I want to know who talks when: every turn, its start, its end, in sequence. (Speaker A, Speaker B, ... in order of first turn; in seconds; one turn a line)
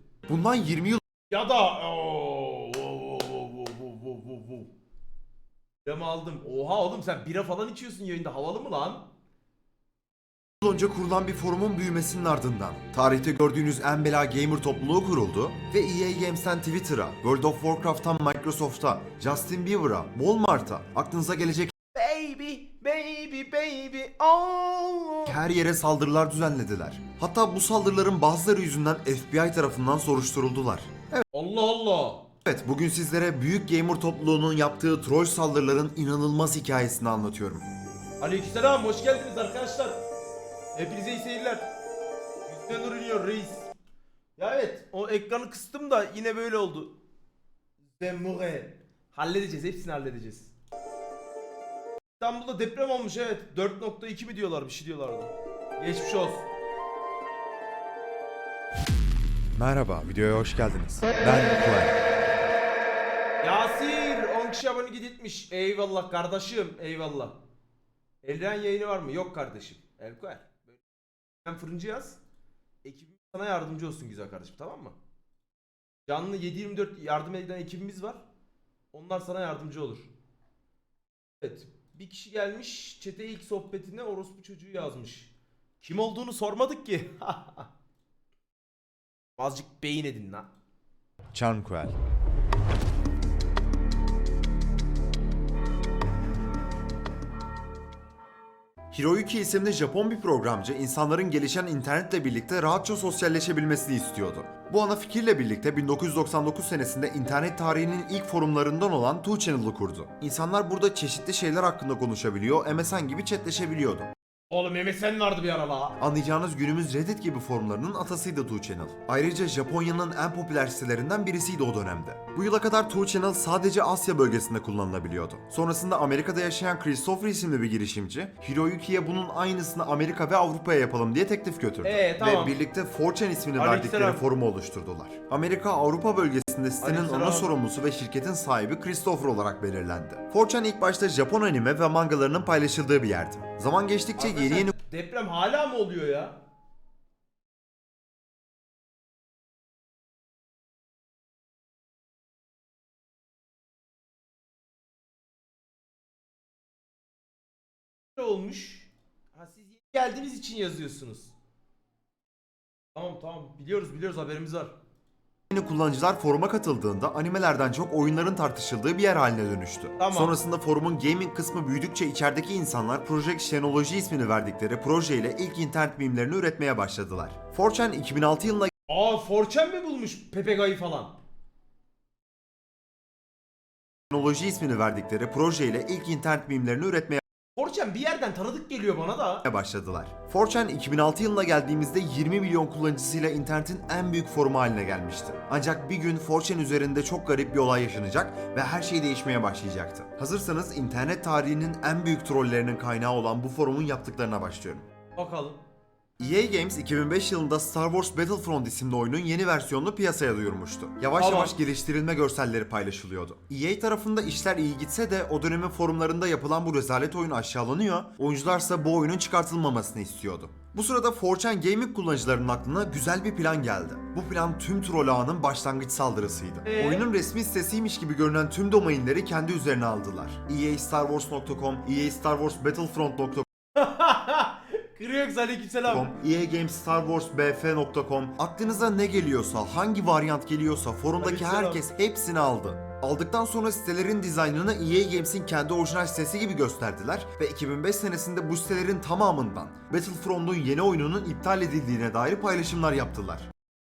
Speaker A: 0.3-1.0
Speaker B: 1.3-4.7
Speaker B: 5.8-9.1
Speaker A: 10.6-21.7
Speaker B: 21.9-25.4
Speaker A: 25.3-31.2
Speaker B: 31.3-32.3
Speaker A: 32.5-37.7
Speaker B: 38.2-40.0
Speaker B: 40.7-41.7
Speaker B: 42.5-43.7
Speaker B: 44.4-46.9
Speaker B: 48.0-50.5
Speaker B: 52.2-56.4
Speaker A: 59.6-62.0
Speaker B: 63.4-67.4
Speaker B: 68.2-70.8
Speaker B: 71.4-72.2
Speaker B: 72.8-75.0
Speaker B: 76.1-78.2
Speaker B: 78.9-80.1
Speaker B: 81.4-87.7
Speaker B: 89.4-90.5
Speaker A: 91.3-92.0
Speaker A: 98.9-114.1
Speaker B: 114.5-116.0
Speaker A: 116.0-144.7
Speaker B: 131.8-132.5
Speaker B: 133.6-134.2
Speaker B: 136.8-137.5
Speaker B: 144.2-146.4
Speaker B: 158.2-161.3
Speaker B: 162.9-164.8
Speaker A: 165.5-178.7
Speaker B: 170.0-170.3
Speaker B: 178.9-181.2
Speaker A: 184.1-187.2
Speaker B: 187.6-189.4
Speaker A: 189.4-204.8
Speaker B: 205.2-205.6
Speaker A: 206.2-233.4
Speaker B: 211.2-211.5
Speaker B: 226.6-227.1
Speaker B: 233.8-236.1
Speaker A: 235.9-253.5
Speaker B: 241.2-241.8